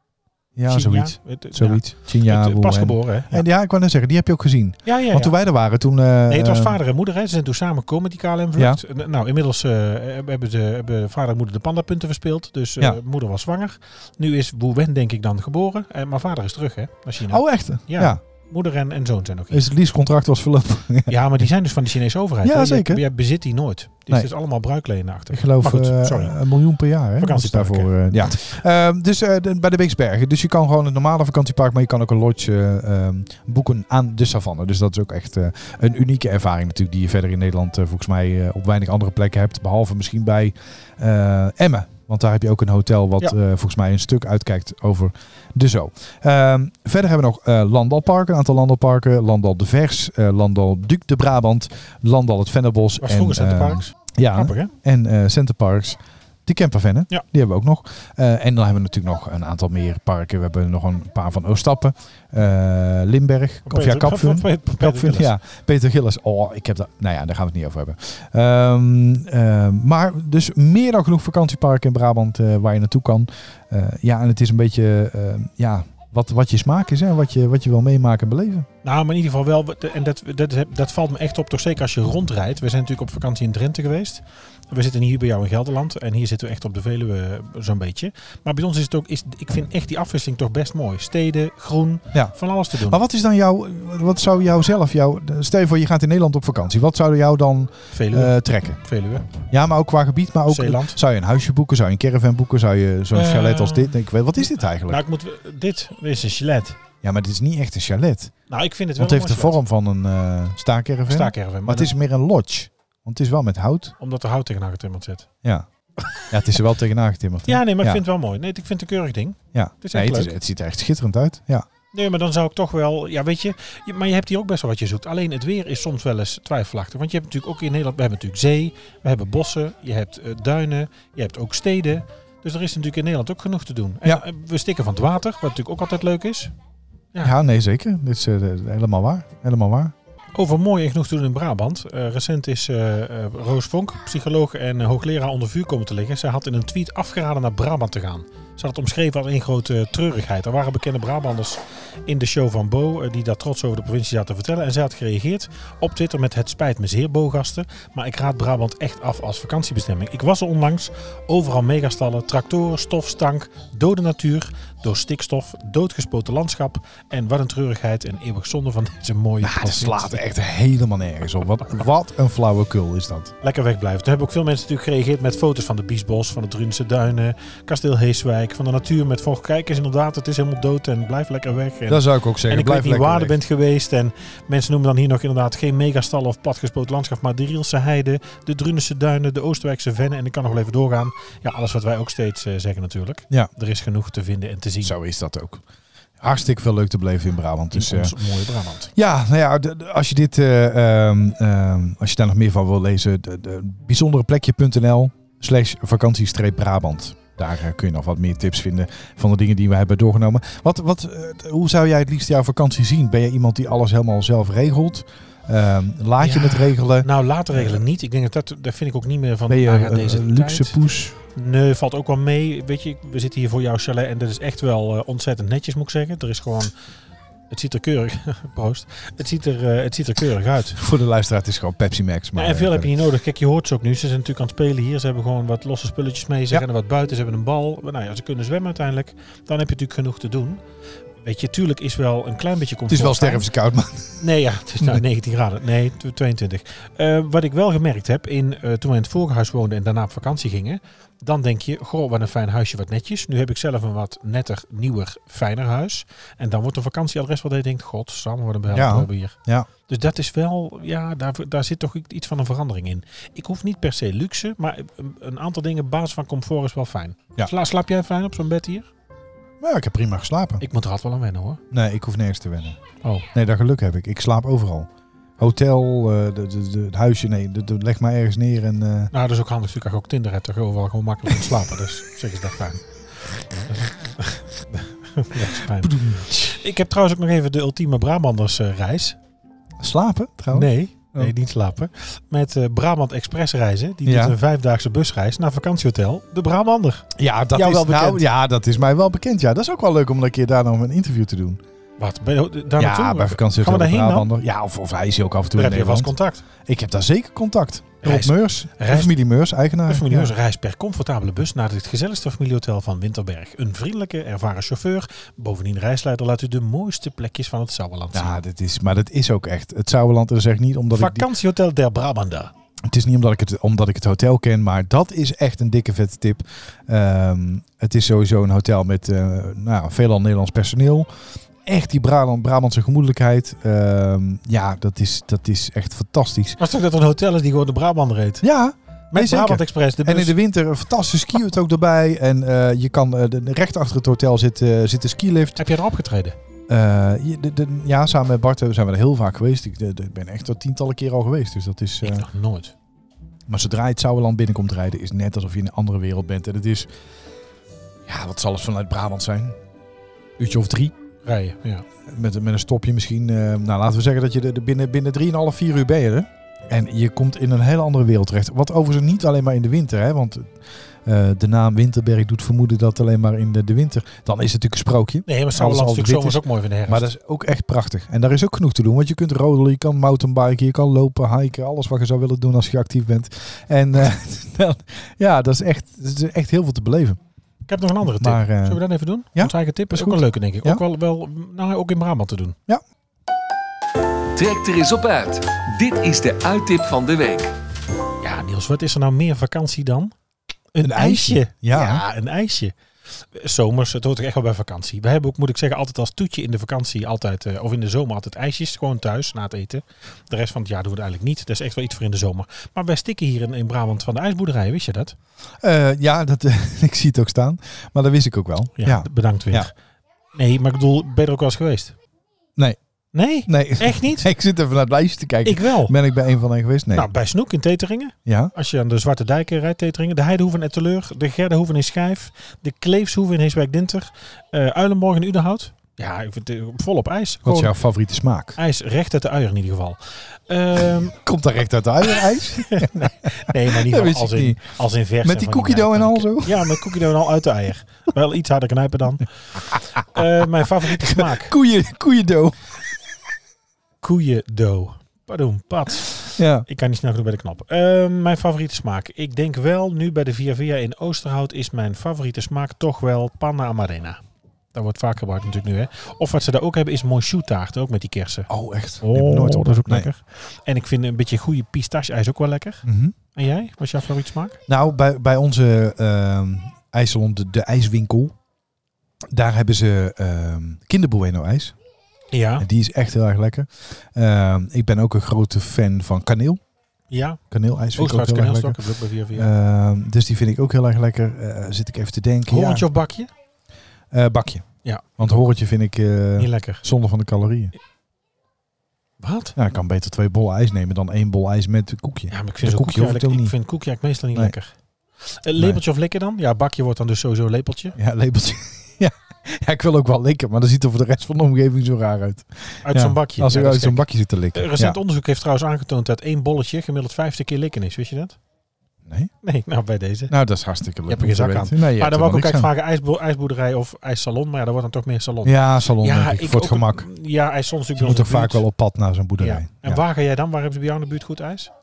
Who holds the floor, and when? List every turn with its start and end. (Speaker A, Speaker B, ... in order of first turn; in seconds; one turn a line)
Speaker A: 0.6-6.8
Speaker B: 0.7-3.4
Speaker B: 4.8-5.3
Speaker B: 6.3-19.7
Speaker A: 17.3-18.2
Speaker A: 19.5-21.5
Speaker B: 21.1-26.4
Speaker A: 22.4-23.0
Speaker A: 25.3-78.7
Speaker B: 27.2-27.9
Speaker B: 53.0-54.7
Speaker B: 63.7-65.3
Speaker B: 78.8-93.0
Speaker A: 92.1-98.8
Speaker B: 97.9-99.3
Speaker A: 99.3-105.0
Speaker B: 100.5-101.0
Speaker B: 103.1-106.8
Speaker A: 107.0-108.3
Speaker B: 108.5-109.6
Speaker A: 109.0-113.9
Speaker B: 111.1-111.9
Speaker B: 114.0-115.3
Speaker A: 116.3-118.0
Speaker B: 117.5-120.3
Speaker A: 119.5-121.7
Speaker B: 121.9-136.5
Speaker A: 137.2-139.9
Speaker B: 140.3-170.2
Speaker A: 169.4-173.3
Speaker B: 173.4-194.9
Speaker A: 181.9-183.4
Speaker A: 194.8-195.6
Speaker A: 196.2-198.1
Speaker B: 197.7-198.9
Speaker A: 198.9-217.8
Speaker B: 216.2-226.7
Speaker A: 219.5-221.2
Speaker B: 227.5-230.8
Speaker A: 230.8-232.9
Speaker B: 232.3-240.6
Speaker B: 241.2-243.4
Speaker A: 242.9-244.2
Speaker B: 244.2-268.9
Speaker A: 258.7-259.7
Speaker A: 269.6-270.6
Speaker B: 270.6-271.6
Speaker A: 271.7-272.8
Speaker A: 273.3-279.1
Speaker B: 279.1-289.2
Speaker A: 285.8-286.6
Speaker A: 289.8-291.3
Speaker B: 290.5-298.2
Speaker A: 294.0-294.4
Speaker A: 297.1-301.6
Speaker B: 302.0-304.3
Speaker A: 302.8-310.3
Speaker B: 305.6-306.4
Speaker B: 308.0-309.1
Speaker B: 309.9-318.4
Speaker A: 318.1-321.2
Speaker B: 320.9-322.5
Speaker A: 322.9-331.1
Speaker A: 331.6-336.6
Speaker B: 336.6-338.4
Speaker A: 338.4-345.6
Speaker B: 339.1-340.4
Speaker B: 345.6-346.4
Speaker A: 346.7-352.2
Speaker B: 352.0-352.7
Speaker A: 353.5-356.9
Speaker A: 358.1-359.6
Speaker A: 360.4-360.9
Speaker B: 361.2-361.8
Speaker A: 362.1-387.2
Speaker B: 375.3-377.1
Speaker B: 387.7-392.6
Speaker A: 388.0-388.8
Speaker A: 389.3-390.8
Speaker C: 394.3-397.5
Speaker B: 398.2-400.1
Speaker B: 400.7-415.1
Speaker A: 400.8-402.0
Speaker A: 415.6-419.7
Speaker B: 418.8-419.7
Speaker B: 420.3-421.9
Speaker B: 423.1-424.3
Speaker A: 423.4-427.1
Speaker B: 425.4-425.9
Speaker B: 426.9-437.7
Speaker A: 428.2-428.5
Speaker A: 437.4-438.6
Speaker B: 438.6-441.2
Speaker A: 441.1-444.6
Speaker B: 442.6-451.5
Speaker A: 445.2-447.0
Speaker A: 451.0-452.6
Speaker B: 454.0-464.2
Speaker A: 456.4-456.6
Speaker B: 464.7-468.5
Speaker A: 468.5-470.1
Speaker B: 469.0-474.6
Speaker A: 472.8-473.1
Speaker A: 474.7-478.3
Speaker A: 479.3-481.7
Speaker B: 482.3-482.6
Speaker A: 482.6-486.6
Speaker B: 487.1-487.4
Speaker A: 487.5-488.8
Speaker B: 487.9-489.5
Speaker A: 489.3-492.9
Speaker B: 492.5-493.3
Speaker A: 494.1-497.7
Speaker B: 494.8-495.3
Speaker B: 496.4-496.8
Speaker B: 499.2-499.6
Speaker A: 499.6-503.5
Speaker B: 502.3-508.0
Speaker A: 508.0-515.0
Speaker B: 512.8-518.4
Speaker A: 519.0-519.3
Speaker B: 519.4-520.3
Speaker A: 520.3-522.7
Speaker B: 521.1-528.6
Speaker A: 525.4-527.1
Speaker A: 528.0-530.0
Speaker B: 529.4-531.7